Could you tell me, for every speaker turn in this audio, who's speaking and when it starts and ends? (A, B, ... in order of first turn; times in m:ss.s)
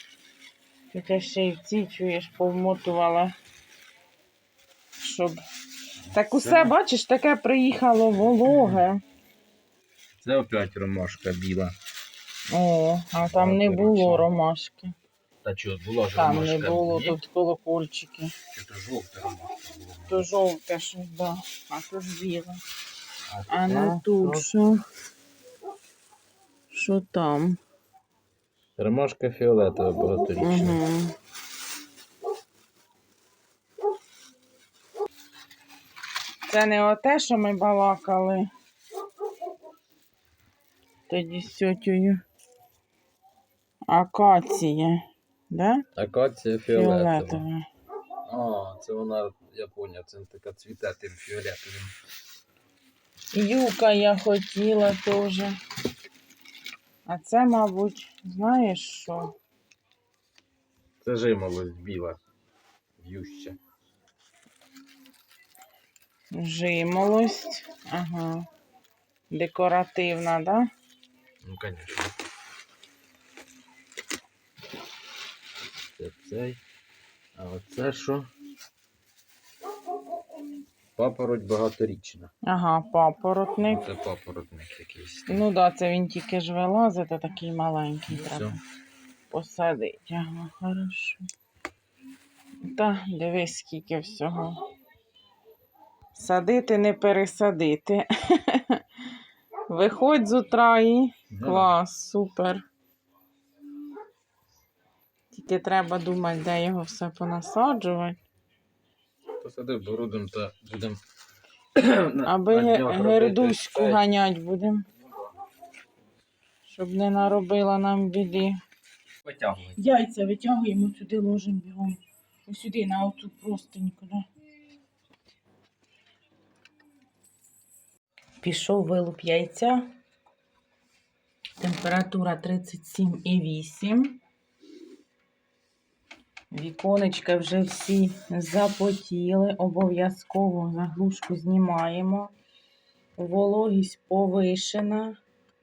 0:00.9-0:03.3 A
0:05.0-0:05.4 A
0:06.1-0:06.7 B
0:06.1-0:09.0 A
0:08.5-0:08.8 B
0:10.2-0:11.7 B
0:12.5-0:14.9 A
0:13.2-0:14.3 B
0:15.4-0:17.2 B
0:16.1-0:18.3 A
0:18.5-0:20.3 B
0:20.1-0:22.6 A
0:23.3-0:24.5 B
0:23.5-0:24.8 A
0:26.7-0:27.6 A
0:28.8-0:30.8 B
0:30.4-0:31.1 A
0:36.5-0:38.5 A
0:41.1-0:42.2 A
0:43.9-0:45.8 A
0:46.0-0:47.4 B
0:46.7-0:47.6 A
0:48.2-0:51.9 B
0:53.3-0:55.6 A
0:57.0-0:59.3 A
1:01.0-1:02.2 B
1:03.0-1:03.6 B
1:06.3-1:08.5 A
1:09.3-1:10.7 A
1:11.4-1:12.1 B
1:15.9-1:16.6 B
1:17.3-1:18.3 B
1:21.0-1:22.3 B
1:22.4-1:23.8 A
1:23.6-1:25.4 B
1:25.3-1:28.6 A
1:28.1-1:28.6 B
1:29.3-1:31.3 A
1:32.6-1:34.6 A
1:36.1-1:38.8 A
1:39.7-1:42.6 A
1:41.3-1:41.8 B
1:45.3-1:48.2 A
1:49.4-1:51.0 B
1:51.7-1:54.0 B
1:52.2-1:54.9 A
1:56.6-1:58.6 A
1:59.2-1:59.8 B
1:59.8-2:04.2 A
2:08.4-2:09.9 A
2:11.6-2:14.2 A
2:16.5-2:22.3 A
2:23.2-2:25.2 A